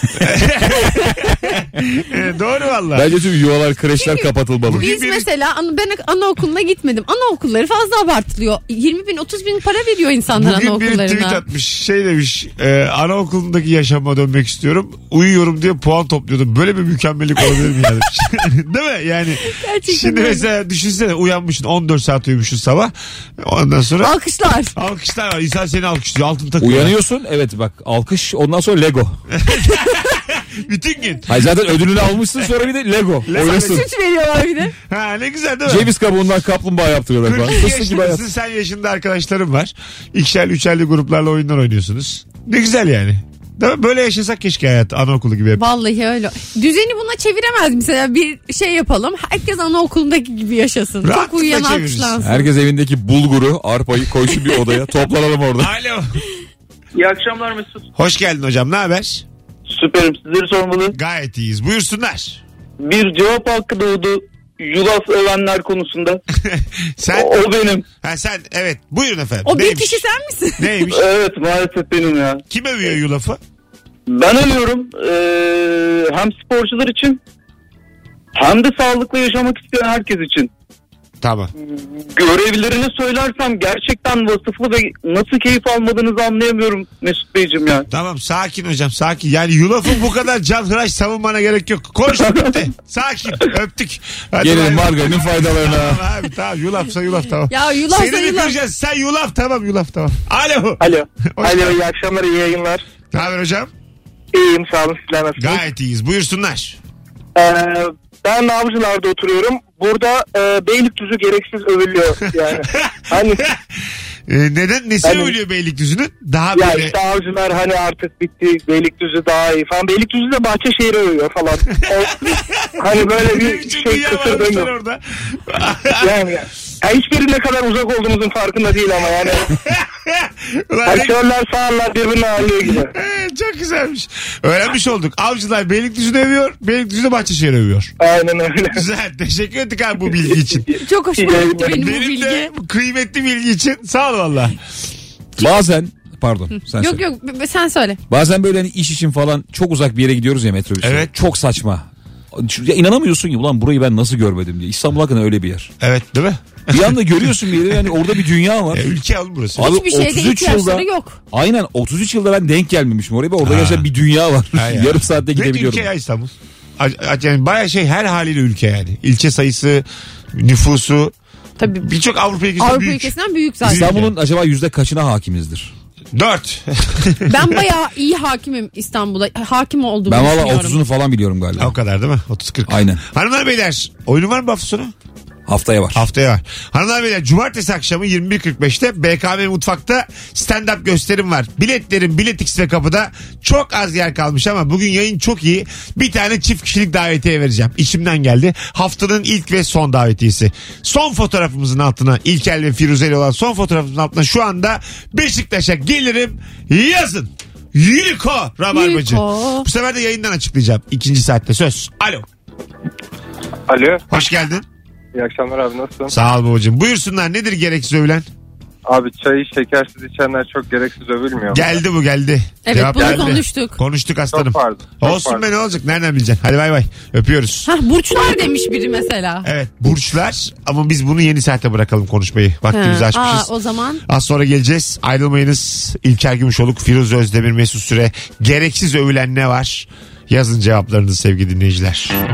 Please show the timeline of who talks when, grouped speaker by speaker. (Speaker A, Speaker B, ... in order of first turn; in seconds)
Speaker A: 0.2-3.1, 4.7-5.3, 10.3-24.1, 24.7-26.9, 29.4-31.3, 33.3-33.9, 34.9-35.9, 37.2-45.6, 51.0-52.2, 55.6-56.2, 58.0-59.2, 60.9-62.4, 66.5-67.4, 68.0-70.0, 70.6-71.0, 72.5-73.4, 81.2-81.5, 87.9-100.8, 101.3-101.8, 103.1-103.7, 105.4-106.8, 112.9-113.5, 114.3-116.9, 122.6-126.1, 129.7-131.2, 132.9-137.9, 138.7-140.7, 141.7-144.6, 150.8-151.1, 155.8-157.9, 158.7-159.7, 163.4-163.8, 164.5-171.1, 171.7-173.1, 173.6-174.1, 176.1-177.4, 181.6-184.9, 185.9-212.2, 214.1-214.6, 216.1-218.3, 221.5-227.7, 229.4-233.5, 234.1-242.2
Speaker B: 2.9-4.8, 26.6-29.2, 31.2-33.9, 35.6-38.2, 52.2-55.7, 94.4-96.0, 145.4-147.0, 148.1-155.7, 156.7-158.9, 159.6-165.9, 173.6-175.7, 180.1-181.7, 182.7-183.0, 185.4-186.0
Speaker C: 3.9-11.4, 19.4-20.5, 24.0-24.7, 33.3-34.7, 45.5-52.5, 69.4-70.7, 97.5-98.6, 140.8-142.5, 146.8-148.0, 159.6-161.2, 171.6-171.8, 172.6-173.9, 177.3-180.8, 208.7-209.7, 222.6-223.8, 227.7-229.5, 232.7-234.0
Speaker D: 57.0-57.7, 59.7-60.9, 62.8-66.2, 67.1-67.8, 70.9-72.4, 74.1-77.2, 78.3-80.5, 81.6-87.8, 101.7-102.0, 123.0-123.8
Speaker E: 101.7-102.7, 104.3-105.5, 107.3-113.4, 115.0-115.3, 116.5-122.2, 122.8-124.7, 126.0-129.3, 131.0-132.9, 138.0-138.7, 141.2-141.7
Speaker F: 213.7-214.0, 215.1-216.1, 218.9-221.6, 224.3-225.5